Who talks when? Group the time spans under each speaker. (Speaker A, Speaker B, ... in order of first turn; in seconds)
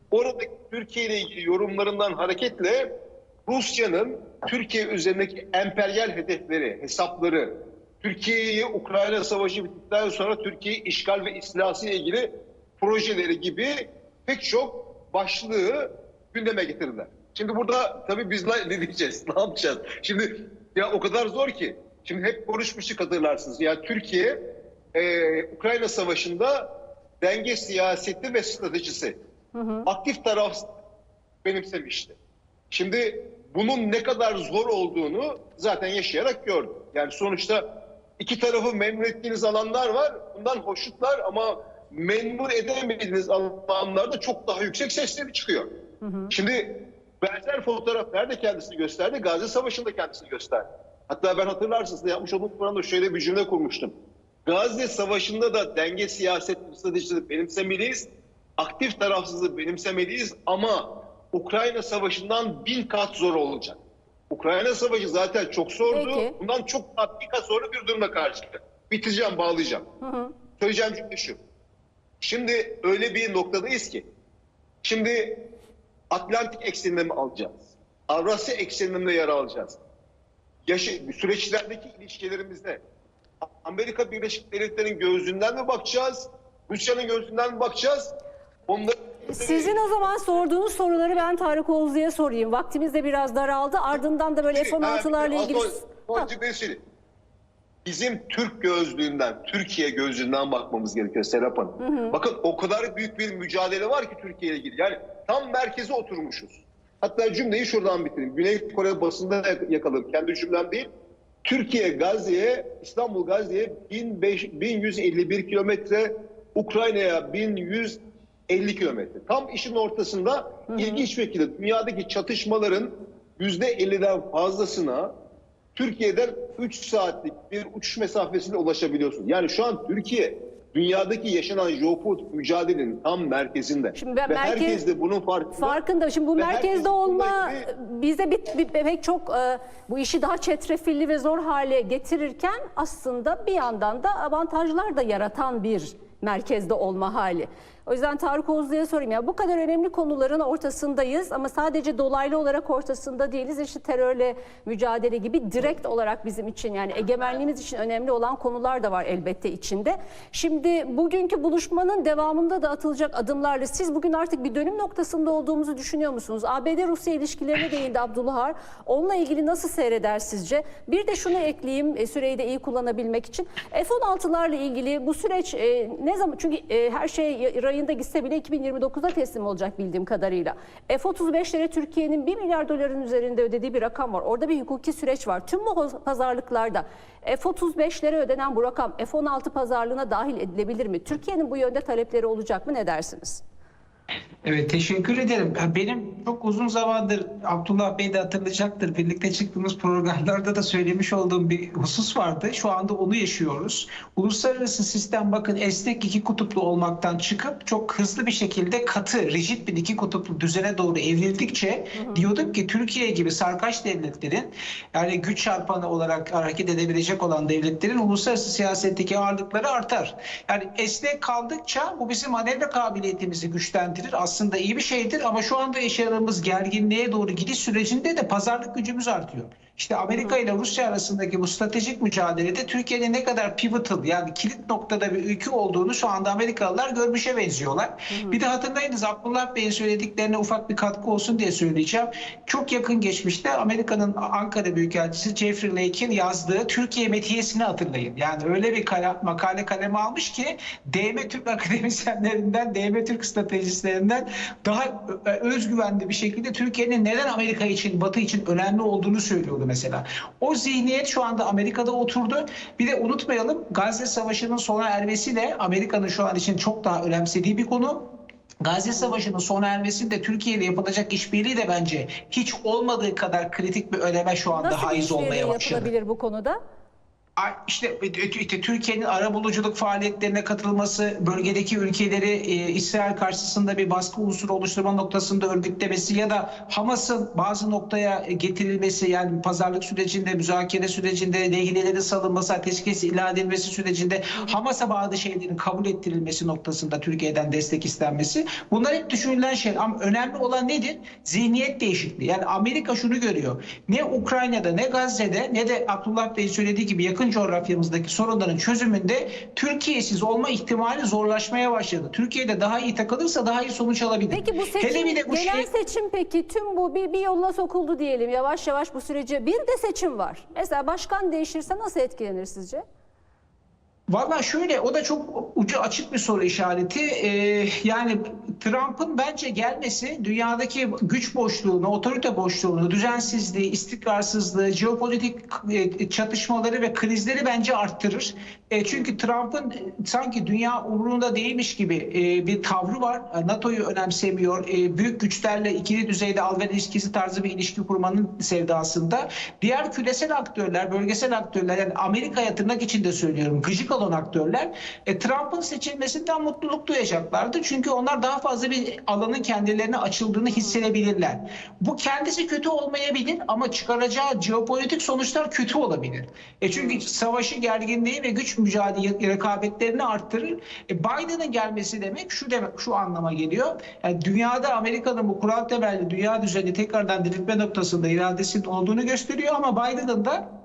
Speaker A: 0.1-2.9, 3.5-24.4, 24.9-29.2, 29.9-30.7, 31.4-32.1, 32.7-37.6, 38.2-45.7, 46.3-53.9, 54.4-63.8, 64.3-69.9, 70.6-71.4, 72.2-74.1, 74.8-75.4, 76.1-79.8, 80.7-82.8, 83.6-88.1, 88.7-89.8, 94.5-96.8, 97.8-110.9, 111.4-125.1, 125.7-135.8, 136.3-137.7
Speaker B: 29.5-29.9, 46.0-46.3, 65.9-66.3, 70.0-70.3, 89.3-96.3, 101.8-102.1, 120.7-121.0, 133.9-134.8, 135.6-193.4, 211.9-212.2, 238.1-238.4, 274.5-276.6, 314.3-322.8, 366.7-367.0
Speaker C: 194.4-268.1, 268.6-275.9, 277.4-315.7, 324.1-380.5